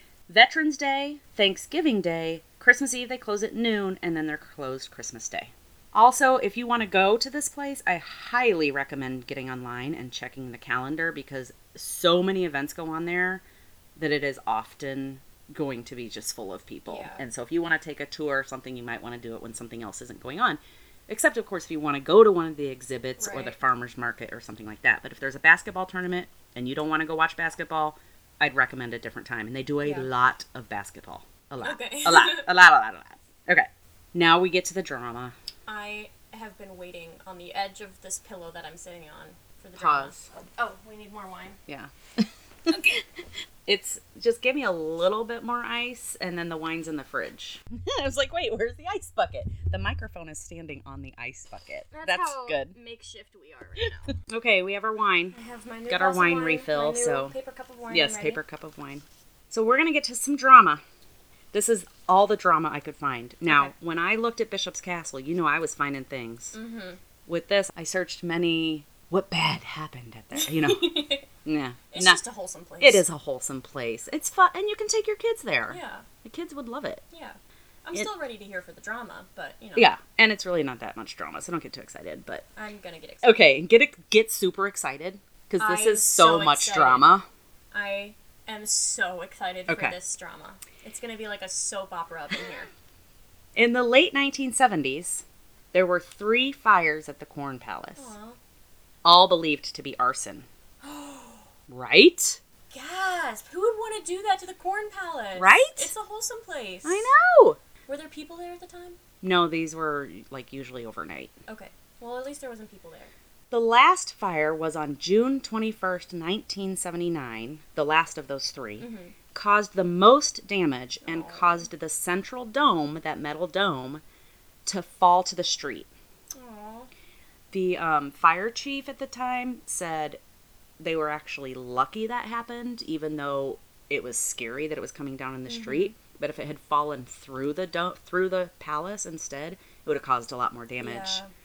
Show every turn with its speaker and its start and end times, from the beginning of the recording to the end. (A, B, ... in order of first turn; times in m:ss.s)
0:00.3-0:13.4 A
0:14.0-0:35.3 A
0:16.9-0:17.2 B
0:23.2-0:23.6 B
0:29.8-0:30.1 B
0:31.6-0:32.5 B
0:35.7-0:41.6 B
0:39.8-0:40.1 A
0:41.7-0:43.0 A
0:42.7-0:43.0 B
0:43.6-0:52.7 A
0:51.9-0:54.2 B
0:54.2-0:55.3 A
0:55.3-0:58.4 B
0:55.9-0:57.3 A
0:57.9-1:00.8 A
1:01.5-1:06.6 A
1:03.4-1:03.7 B
1:06.5-1:07.0 B
1:07.3-1:12.2 A
1:10.3-1:11.3 B
1:11.9-1:13.0 B
1:12.8-1:17.0 A
1:15.7-1:16.1 B
1:17.1-1:19.9 B
1:19.7-1:22.4 A
1:22.6-1:23.5 B
1:23.2-1:27.2 A
1:25.6-1:27.1 B
1:27.7-1:32.7 B
1:29.7-1:30.0 A
1:33.6-1:38.1 A
1:38.0-1:38.4 B
1:39.0-1:40.4 A
1:40.8-1:41.5 B
1:41.7-1:42.4 A
1:42.7-1:47.1 B
1:45.3-1:45.9 A
1:46.8-1:47.6 A
1:47.9-1:49.0 B
1:49.2-1:51.3 A
1:51.5-1:53.1 B
1:53.5-2:04.0 A
1:58.8-1:59.1 B
2:01.0-2:01.7 B
2:04.6-2:05.9 A
2:06.3-2:06.9 B
2:07.5-2:10.2 A
2:10.8-2:21.2 A
2:15.5-2:15.9 B
2:20.8-2:21.3 B